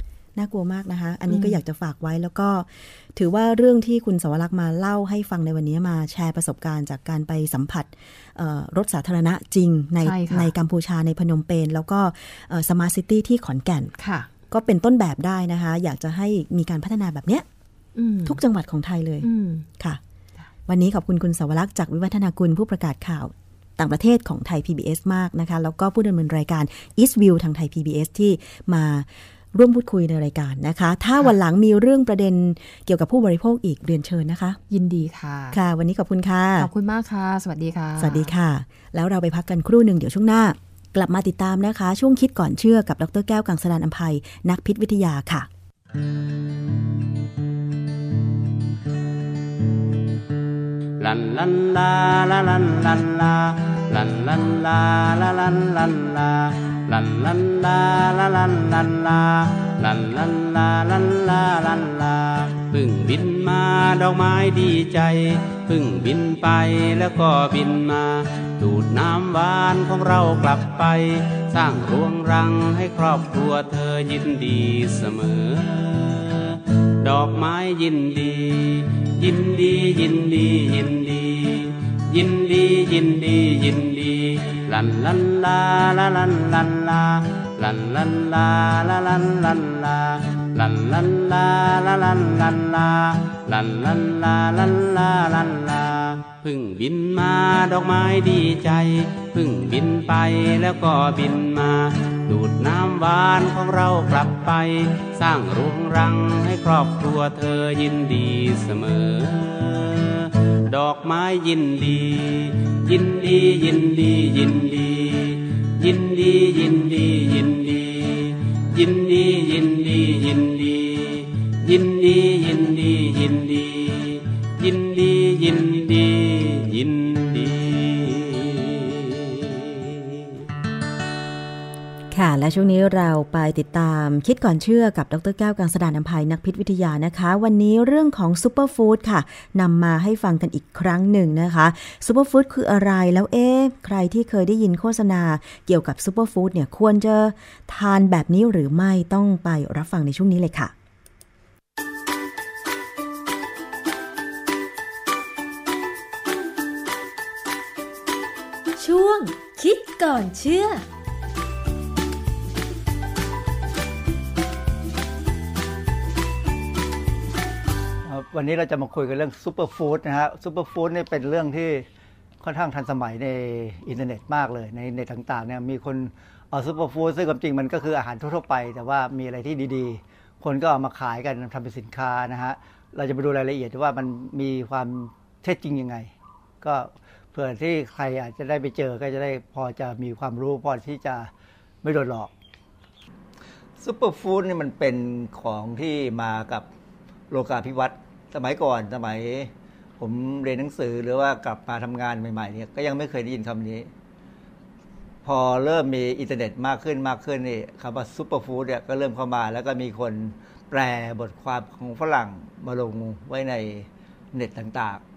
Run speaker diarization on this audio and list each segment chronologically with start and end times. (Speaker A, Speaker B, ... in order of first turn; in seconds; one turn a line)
Speaker A: 0.3-13.9
Speaker B: 1.3-1.6
Speaker B: 10.0-10.5
Speaker B: 14.0-14.3
Speaker A: 14.5-17.4
Speaker B: 17.9-18.4
Speaker A: 18.2-20.0
Speaker B: 19.2-19.7
Speaker A: 20.7-34.6
Speaker B: 34.7-35.6
Speaker A: 35.5-36.7
Speaker B: 36.6-38.3
Speaker A: 38.0-45.5
Speaker C: 51.0-130.4
Speaker A: 132.1-150.7
Speaker D: 158.8-160.8
Speaker E: 168.0-171.8
Speaker E: 172.4-186.1
Speaker E: 186.6-191.3
Speaker E: 191.8-192.3
Speaker E: 193.8-196.7
Speaker E: 197.3-203.9
Speaker E: 205.2-215.0